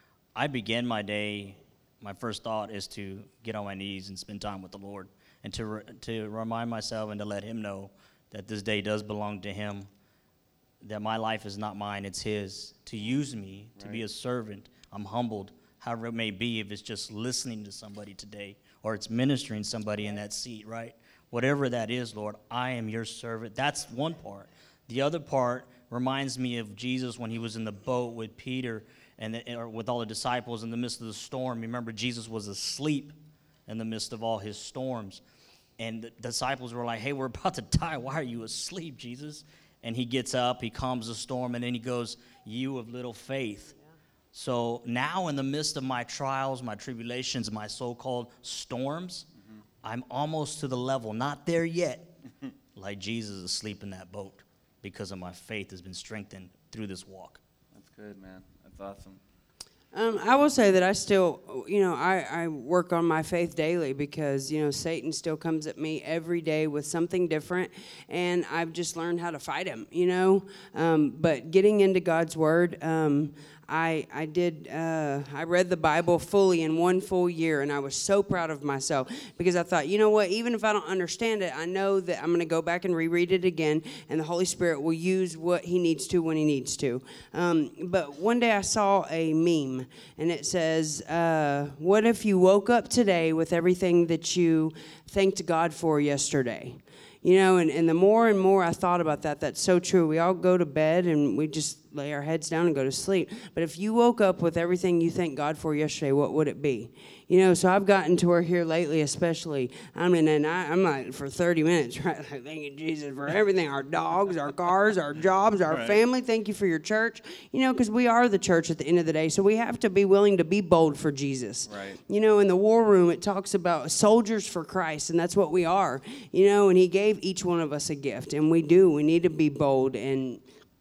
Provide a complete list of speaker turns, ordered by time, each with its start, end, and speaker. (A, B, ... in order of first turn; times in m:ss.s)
0:00.4-0:09.9 A
0:10.8-0:33.2 A
0:13.8-0:14.0 B
0:33.7-0:35.2 A
0:35.8-0:43.7 A
0:44.3-0:49.3 A
0:49.8-0:52.1 A
0:52.8-0:57.4 A
0:57.8-0:59.2 B
0:59.9-2:10.4 C
1:55.7-1:56.0 B
2:01.7-2:02.0 B